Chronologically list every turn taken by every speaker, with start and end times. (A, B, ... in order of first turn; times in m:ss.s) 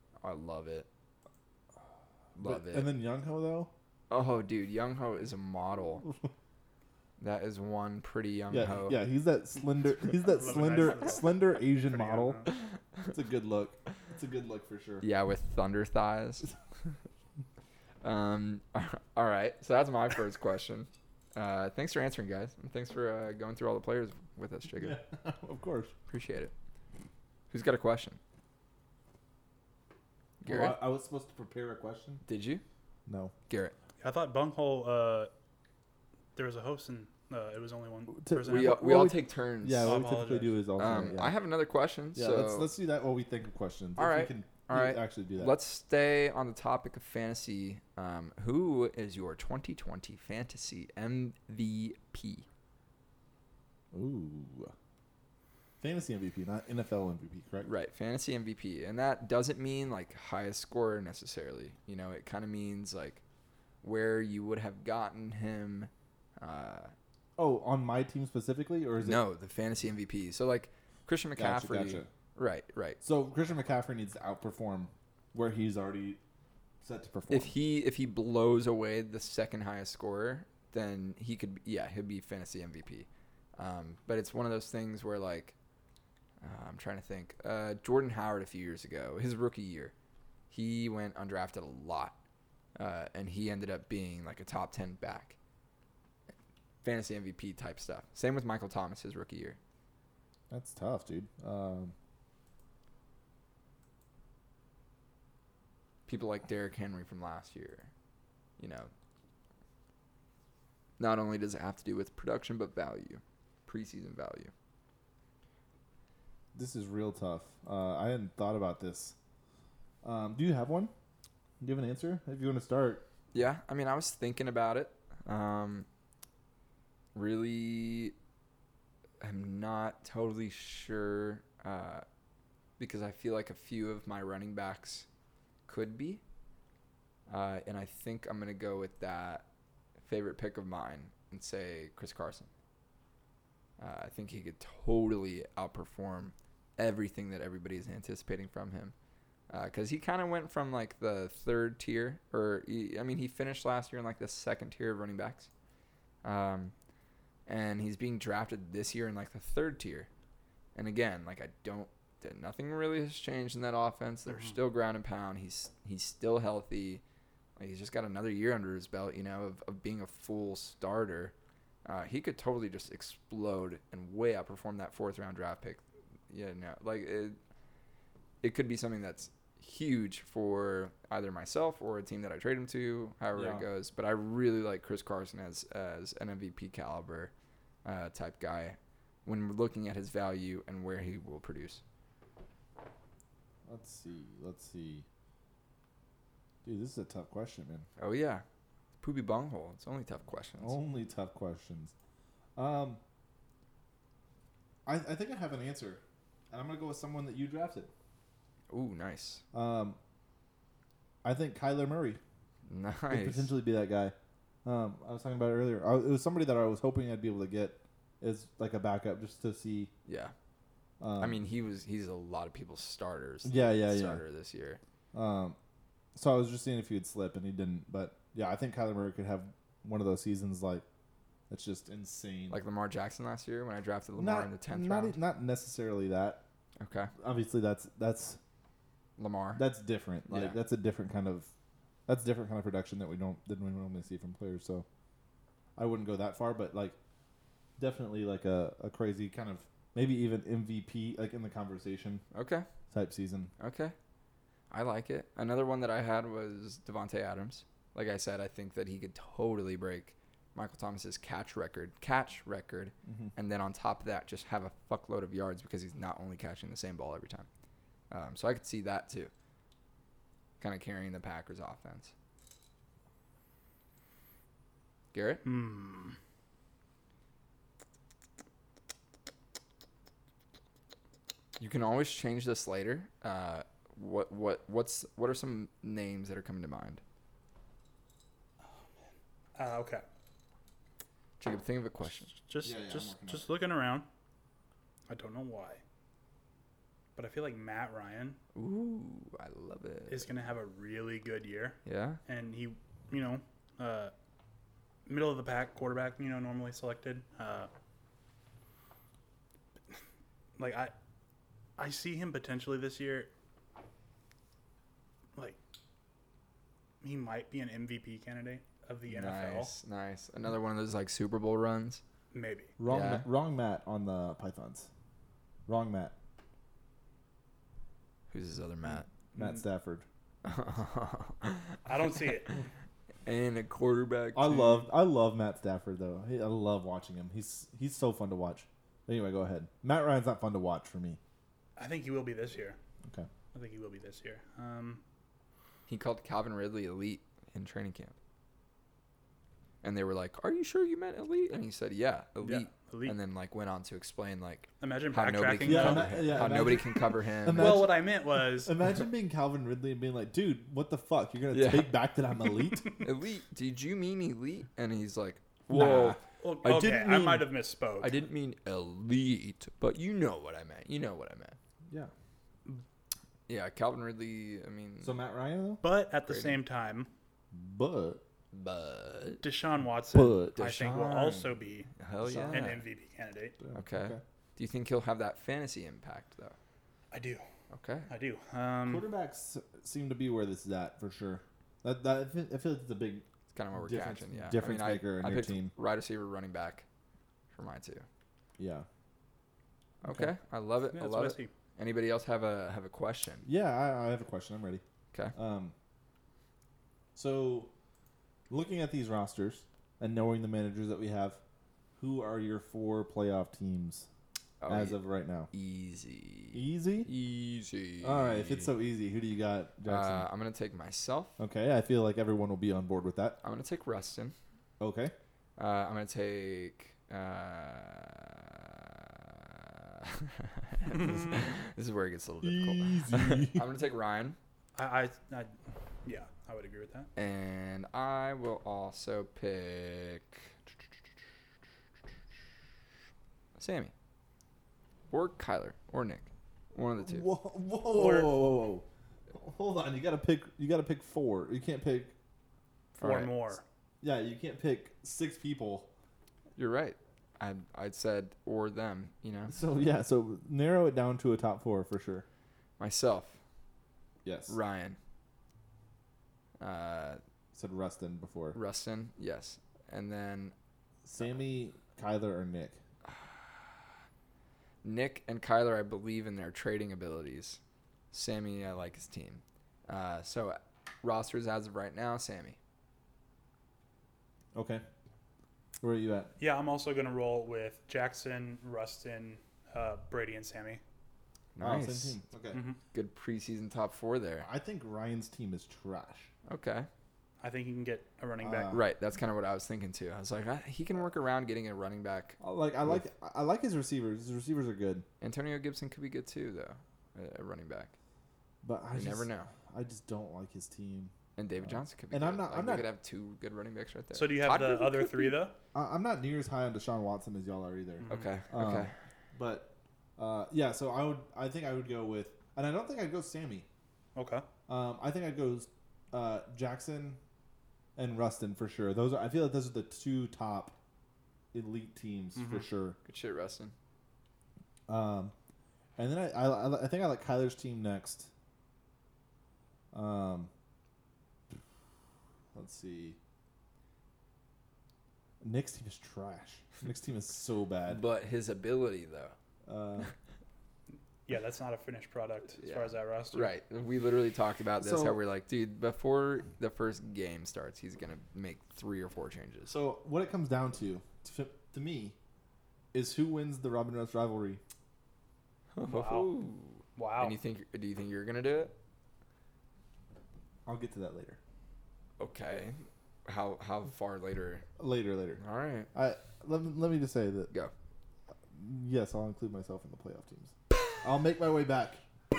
0:00.2-0:00.9 A
0:02.4-0:02.9 A
0:02.4-0:03.7 B
0:04.1-0:06.1 A
0:07.2-0:09.0 A
0:08.5-0:12.4 B
0:10.1-0:12.5 C
0:13.1-0:15.0 B
0:15.0-0:16.5 A
0:18.0-0:25.0 A
0:24.8-0:25.9 B
0:26.1-0:26.5 A
0:27.5-0:28.2 A
0:30.4-0:30.8 A
0:30.4-0:32.2 B
0:32.3-0:32.6 A
0:33.0-0:33.3 B
0:33.5-0:33.7 A
0:34.0-0:35.3 C
0:36.3-0:39.1 C
0:38.2-0:41.4 B
0:38.4-0:40.0 A
0:39.8-0:40.6 C
0:40.8-0:42.7 A
0:42.1-0:45.5 B
0:44.0-0:52.4 A
0:53.9-0:54.7 B
0:55.8-0:57.7 B
0:57.6-1:03.2 A
1:03.8-1:06.9 A
1:07.4-1:09.2 B
1:09.0-1:13.0 A
1:11.4-1:12.1 B
1:13.0-1:16.2 B
1:16.8-1:17.5 B
1:17.3-1:25.5 A
1:26.4-1:29.9 A
1:30.5-1:32.2 A
1:32.8-1:35.4 A
1:36.8-1:39.6 A
1:40.5-1:41.9 B
1:46.1-1:47.9 A
1:48.6-1:48.9 A
1:51.0-1:54.5 A
1:56.5-1:59.1 B
2:00.0-2:00.9 B
2:01.6-2:03.1 B
2:03.3-2:05.8 A
2:07.1-2:08.1 A
2:09.2-2:12.0 A
2:12.8-2:15.0 A
2:15.7-2:16.2 A
2:17.3-2:19.4 A
2:20.0-2:22.5 A
2:23.8-2:28.9 A
2:29.5-2:35.5 A
2:36.2-2:36.7 A
2:37.5-2:40.1 A
2:40.7-2:47.0 A
2:44.3-2:44.6 C
2:47.6-2:51.3 A
2:51.8-2:57.4 A
2:58.4-3:07.3 A
3:03.3-3:03.7 B
3:07.8-3:11.8 A
3:13.6-3:15.0 B
3:16.6-3:17.9 B
3:18.0-3:18.4 A
3:19.0-3:20.8 A
3:20.6-3:21.9 B
3:22.6-3:23.0 B
3:24.8-3:27.9 B
3:28.7-3:29.4 A
3:29.5-3:30.0 B
3:31.2-3:32.2 B
3:32.6-3:33.5 A
3:33.1-3:39.9 B
3:40.0-3:40.3 A
3:41.0-3:41.4 B
3:41.2-3:44.8 A
3:43.4-3:44.2 B
3:45.1-3:45.6 B
3:46.1-3:50.8 B
3:51.5-3:52.6 B
3:52.5-3:55.2 A
3:54.2-3:56.4 B
3:56.8-3:57.1 A
3:57.2-3:58.4 B
3:59.2-3:59.6 A
3:59.5-4:01.5 B
4:00.3-4:00.6 A
4:02.1-4:04.8 B
4:05.8-4:07.0 B
4:07.8-4:12.2 B
4:12.3-4:12.7 A
4:12.9-4:13.5 B
4:13.6-4:13.9 A
4:14.7-4:27.5 A
4:23.0-4:23.3 B
4:28.1-4:29.3 A
4:30.6-4:32.1 A
4:35.1-4:35.4 A
4:35.4-4:36.2 C
4:41.6-4:47.0 A
4:49.5-4:50.0 C
4:51.4-4:52.3 A
4:52.3-4:54.1 C
4:52.6-4:53.5 B
4:55.1-4:55.8 C
4:57.2-4:58.4 C
4:58.5-5:00.3 A
5:00.1-5:04.1 C
5:01.8-5:02.2 A
5:05.0-5:07.7 C
5:10.6-5:10.9 C
5:11.8-5:13.3 C
5:17.0-5:19.7 C
5:19.1-5:22.0 A
5:22.3-5:22.7 C
5:22.8-5:24.9 B
5:22.9-5:23.2 A
5:25.7-5:26.1 B
5:28.3-5:29.1 A
5:29.3-5:30.0 B
5:30.4-5:32.5 A
5:31.8-5:32.6 C
5:33.2-5:34.8 A
5:34.3-5:41.2 B
5:41.8-5:42.8 C
5:43.5-5:45.0 C
5:45.9-5:48.2 A
5:49.8-5:57.8 A
5:52.4-5:53.2 C
5:54.8-5:56.4 C
5:55.6-6:02.9 B
5:57.6-5:58.7 C
6:01.5-6:02.0 A
6:03.0-6:07.4 A
6:05.7-6:06.2 B
6:05.8-6:08.2 C
6:08.0-6:11.6 A
6:13.5-6:15.2 A
6:15.0-6:15.8 B
6:15.8-6:17.1 C
6:16.2-6:16.6 A
6:17.5-6:18.2 B
6:18.5-6:19.4 A
6:19.4-6:23.6 C
6:20.1-6:20.6 B
6:20.5-6:22.8 A
6:22.2-6:22.7 B
6:23.6-6:24.2 B
6:23.7-6:26.6 A
6:27.1-6:27.4 C
6:27.7-6:28.1 A
6:28.1-6:29.1 C
6:28.8-6:35.7 B
6:33.5-6:36.8 A
6:37.5-6:38.1 A
6:38.6-6:38.9 B
6:40.0-6:43.5 A
6:40.0-6:40.3 B
6:40.9-6:41.5 C
6:43.4-6:44.8 B
6:45.3-6:45.7 B
6:47.1-6:47.7 B
6:48.5-6:51.4 B
6:52.0-6:54.1 B
6:54.6-6:58.7 A
6:54.7-6:55.5 B
6:56.5-6:57.1 B
6:58.0-7:00.2 B
6:59.8-7:01.4 A
7:01.4-7:03.4 B
7:03.4-7:04.4 A
7:04.8-7:05.1 B
7:05.6-7:14.4 A
7:10.9-7:11.4 C
7:12.4-7:13.6 B
7:14.7-7:17.1 C
7:17.2-7:20.5 A
7:23.6-7:23.9 A
7:25.1-7:27.3 A
7:27.0-7:32.1 B
7:27.9-7:28.5 C
7:33.0-7:33.5 A
7:33.0-7:33.6 C
7:34.0-7:35.9 B
7:36.6-7:39.6 A
7:39.5-7:42.2 B
7:42.8-7:43.4 A
7:44.2-7:44.5 B
7:44.5-7:45.0 A
7:46.6-7:47.2 A
7:47.5-7:48.6 B
7:48.5-7:50.5 A
7:51.0-7:52.8 B
7:54.8-7:57.6 A
7:58.1-8:02.6 A
8:04.5-8:04.8 B
8:05.8-8:06.3 B
8:06.4-8:10.8 C
8:11.6-8:12.2 A
8:11.6-8:12.6 B
8:12.5-8:12.8 C
8:12.9-8:14.5 A
8:14.4-8:16.3 B
8:16.5-8:16.9 A
8:17.4-8:18.7 C
8:18.4-8:18.8 B
8:18.7-8:23.0 A
8:22.4-8:25.0 B
8:25.2-8:27.9 A
8:28.6-8:32.9 B
8:28.9-8:29.5 A
8:31.4-8:35.4 A
8:34.1-8:35.6 C
8:35.7-8:43.7 B
8:38.1-8:38.9 A
8:44.1-8:44.4 C
8:44.7-8:47.2 B
8:48.0-8:50.8 B
8:51.5-8:53.0 B
8:52.3-8:52.7 C
8:53.0-8:53.7 A
8:54.9-8:55.3 B
8:56.0-8:58.3 B
8:59.9-9:00.5 B
9:02.5-9:03.2 B
9:05.4-9:08.0 B
9:07.9-9:09.3 A
9:09.6-9:10.1 B
9:11.2-9:13.5 C
9:12.6-9:19.7 A
9:14.8-9:15.2 B
9:19.7-9:22.2 B
9:22.9-9:24.6 B
9:25.7-9:28.7 A
9:25.8-9:26.3 C
9:27.0-9:27.4 C
9:30.6-9:31.4 B
9:32.2-9:34.6 A
9:34.8-9:35.4 B
9:35.4-9:35.9 A
9:35.9-9:37.5 B
9:38.5-9:42.0 B